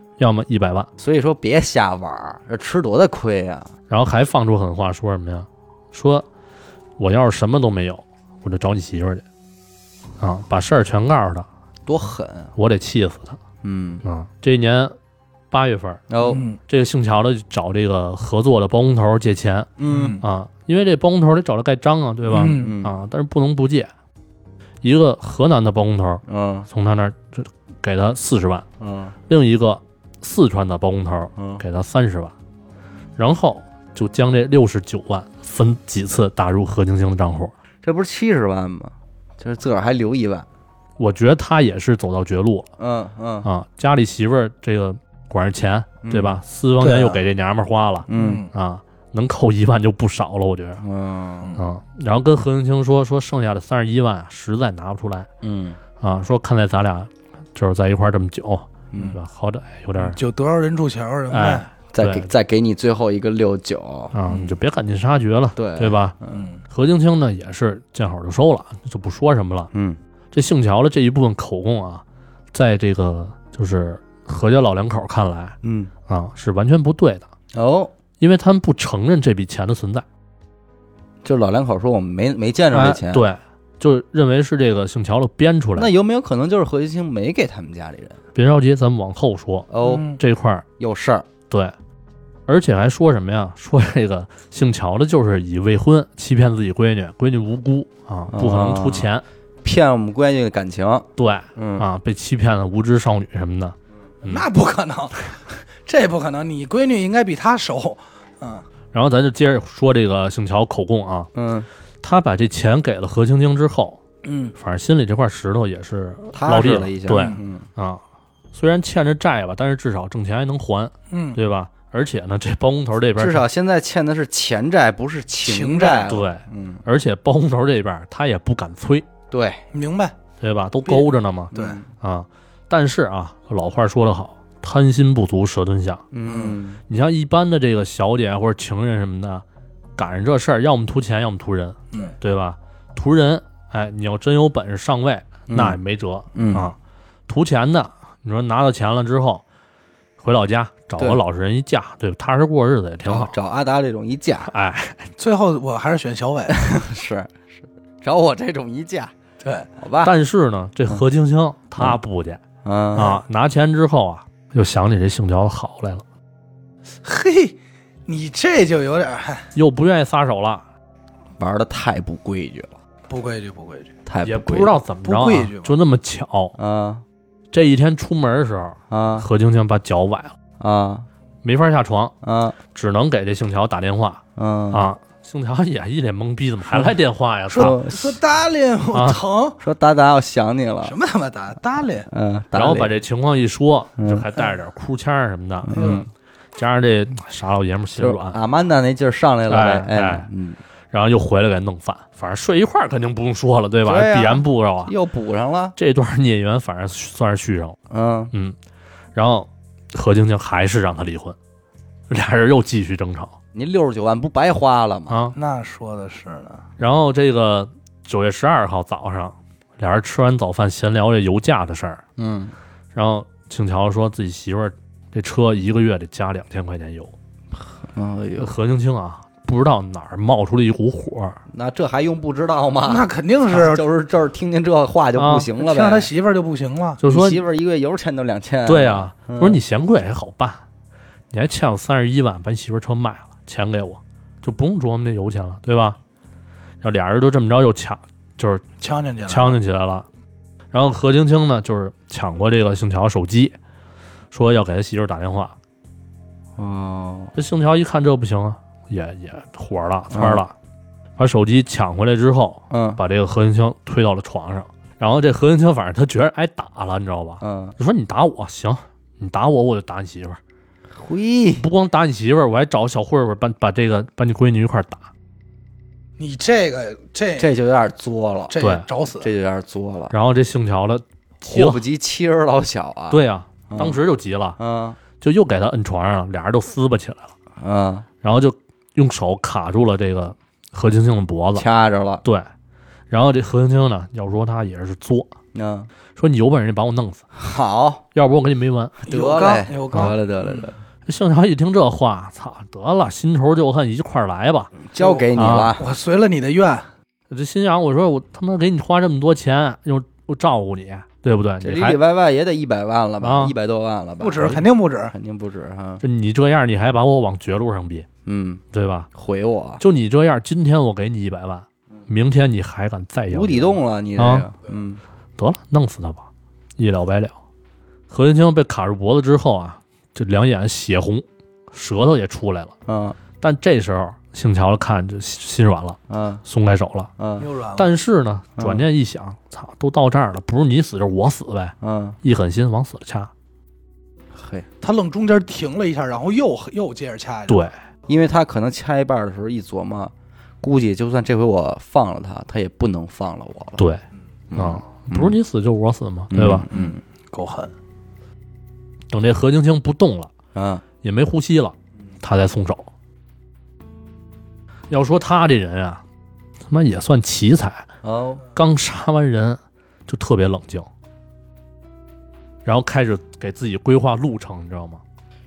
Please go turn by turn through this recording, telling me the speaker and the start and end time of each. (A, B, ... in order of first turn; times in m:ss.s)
0:00.2-0:00.9 A
0:01.0-0:03.7 B
0:03.9-0:06.3 A
0:07.0-0:09.2 A
0:10.2-0:11.5 A
0:11.9-0:12.5 B
0:12.6-0:13.4 A
0:13.6-0:14.0 B
0:14.0-0:15.0 A
0:15.5-0:16.0 A
0:16.1-0:16.4 B
0:16.2-0:16.6 C
0:16.7-0:23.9 A
0:19.8-0:20.2 B
0:19.9-0:20.2 C
0:22.3-0:22.8 C
0:22.3-0:22.9 B
0:24.8-0:28.6 A
0:26.3-0:26.7 B
0:28.8-0:29.1 B
0:29.3-0:32.4 A
0:31.4-0:31.6 B
0:33.2-0:37.6 A
0:37.8-0:40.5 B
0:41.0-0:42.7 A
0:42.8-0:43.5 B
0:43.4-0:50.8 A
0:46.0-0:46.4 B
0:46.8-0:47.2 C
0:48.1-0:48.4 B
0:48.1-0:48.5 C
0:50.8-0:51.6 B
0:51.6-0:55.3 A
0:55.4-0:55.8 B
0:56.0-1:00.2 A
0:58.9-0:59.2 B
1:00.0-1:01.7 C
1:01.3-1:02.3 A
1:01.9-1:04.2 B
1:04.1-1:06.1 A
1:05.6-1:06.4 B
1:06.3-1:06.6 C
1:06.7-1:09.7 A
1:09.7-1:10.0 B
1:10.3-1:17.3 A
1:15.6-1:15.9 B
1:17.5-1:17.9 B
1:18.2-1:20.0 A
1:21.2-1:23.2 B
1:22.7-1:25.9 A
1:25.8-1:28.2 B
1:28.4-1:30.6 A
1:29.7-1:30.1 B
1:29.8-1:30.2 C
1:30.8-1:31.3 B
1:32.5-1:39.2 A
1:38.3-1:39.1 B
1:39.6-1:41.9 B
1:41.2-1:44.5 A
1:44.2-1:48.6 C
1:48.9-1:51.3 A
1:51.3-1:51.7 B
1:52.0-1:54.0 A
1:54.2-1:54.5 C
1:54.6-1:58.0 A
1:56.3-1:57.7 B
1:57.1-1:57.4 C
1:58.5-2:03.4 A
2:01.1-2:01.4 C
2:03.2-2:06.8 B
2:05.4-2:06.2 C
2:06.1-2:09.1 A
2:09.3-2:09.6 B
2:09.7-2:10.1 C
2:10.4-2:16.0 A
2:10.8-2:11.8 C
2:11.5-2:11.9 B
2:16.1-2:16.8 B
2:16.3-2:16.6 C
2:16.9-2:19.4 A
2:20.0-2:26.8 A
2:25.5-2:25.8 B
2:26.3-2:26.7 B
2:27.3-2:29.4 A
2:30.2-2:33.4 A
2:33.0-2:34.5 B
2:34.4-2:35.1 A
2:35.2-2:36.6 C
2:36.5-2:39.1 B
2:39.4-2:39.7 C
2:39.8-2:40.1 B
2:40.0-2:42.4 A
2:42.6-2:43.2 B
2:42.9-2:46.0 A
2:43.0-2:43.2 C
2:47.0-2:49.5 C
2:49.6-2:50.6 A
2:51.4-2:52.8 B
2:53.1-2:53.9 C
2:54.1-2:54.8 B
2:54.2-2:56.6 A
2:55.0-2:55.7 C
2:56.6-2:57.0 B
2:57.5-3:00.4 A
2:58.9-2:59.3 B
3:00.6-3:01.1 B
3:01.4-3:02.1 A
3:02.2-3:02.6 B
3:02.7-3:07.8 A
3:04.4-3:04.9 B
3:07.5-3:09.6 C
3:07.5-3:08.2 B
3:08.9-3:09.2 A
3:09.6-3:11.0 B
3:10.8-3:12.1 C
3:12.1-3:12.9 B
3:12.5-3:15.8 A
3:14.0-3:14.3 B
3:15.6-3:16.1 B
3:15.7-3:16.1 C
3:16.6-3:18.4 A
3:18.0-3:20.6 B
3:19.5-3:20.3 A
3:20.9-3:24.9 A
3:23.8-3:25.8 B
3:25.8-3:27.8 A
3:27.9-3:28.3 B
3:29.1-3:31.4 A
3:32.1-3:33.4 A
3:33.5-3:35.2 B
3:35.1-3:35.4 A
3:35.4-3:36.6 C
3:36.8-3:42.0 A
3:42.2-3:42.5 B
3:42.9-3:47.1 A
3:47.5-3:48.5 B
3:48.4-3:51.4 A
3:51.5-3:56.1 B
3:52.8-3:53.8 C
3:55.2-3:55.5 A
3:55.6-3:57.0 C
3:57.0-3:57.4 A
3:57.0-3:59.6 B
3:58.6-4:00.6 A
4:01.3-4:06.0 A
4:06.8-4:08.6 A
4:08.8-4:09.6 C
4:09.3-4:10.1 A
4:10.7-4:13.5 A
4:14.3-4:15.5 A
4:16.6-4:17.3 B
4:17.4-4:20.5 A
4:20.1-4:20.4 B
4:21.2-4:30.4 A
4:22.7-4:23.0 B
4:27.4-4:27.8 B
4:30.9-4:31.7 B
4:31.6-4:35.1 A
4:36.2-4:37.5 C
4:37.4-4:38.5 B
4:38.5-4:39.3 C
4:38.6-4:38.8 A
4:39.2-4:40.1 B
4:40.1-4:41.8 A
4:41.4-4:44.0 B
4:43.1-4:44.6 A
4:44.6-4:45.0 B
4:45.2-4:47.3 A
4:47.6-4:48.1 B
4:48.2-4:51.7 A
4:51.5-4:52.2 B
4:52.2-4:52.5 A
4:53.1-4:55.3 A
4:55.5-4:55.9 B
4:56.2-4:57.2 A
4:57.3-4:58.0 B
4:58.2-4:59.0 A
4:59.0-5:00.7 C
4:59.1-5:00.8 B
5:01.1-5:04.7 A
5:04.8-5:05.8 B
5:05.0-5:06.9 C
5:05.4-5:05.7 A
5:07.3-5:12.0 A
5:11.6-5:16.0 B
5:13.2-5:13.5 A
5:14.2-5:15.2 C
5:16.0-5:18.1 A
5:18.2-5:18.6 B
5:18.7-5:19.1 A
5:19.2-5:19.8 B
5:19.8-5:24.5 A
5:23.3-5:25.0 B
5:25.4-5:27.4 A
5:28.1-5:32.7 A
5:32.8-5:33.2 B
5:33.4-5:37.1 A
5:36.1-5:36.4 B
5:37.2-5:37.5 B
5:37.4-5:37.9 C
5:37.8-5:43.3 A
5:38.6-5:38.8 B
5:41.8-5:42.2 B
5:44.3-5:44.7 B
5:44.8-5:47.7 C
5:47.5-5:47.7 A
5:48.1-5:53.8 B
5:54.5-5:55.4 B
5:54.5-5:56.7 A
5:56.3-5:57.0 B
5:56.7-5:57.7 C
5:59.1-6:00.3 A
6:00.5-6:00.8 B
6:01.0-6:02.9 A
6:04.9-6:06.0 A
6:06.7-6:07.9 A
6:08.0-6:08.4 B
6:08.5-6:10.9 A
6:12.6-6:15.0 A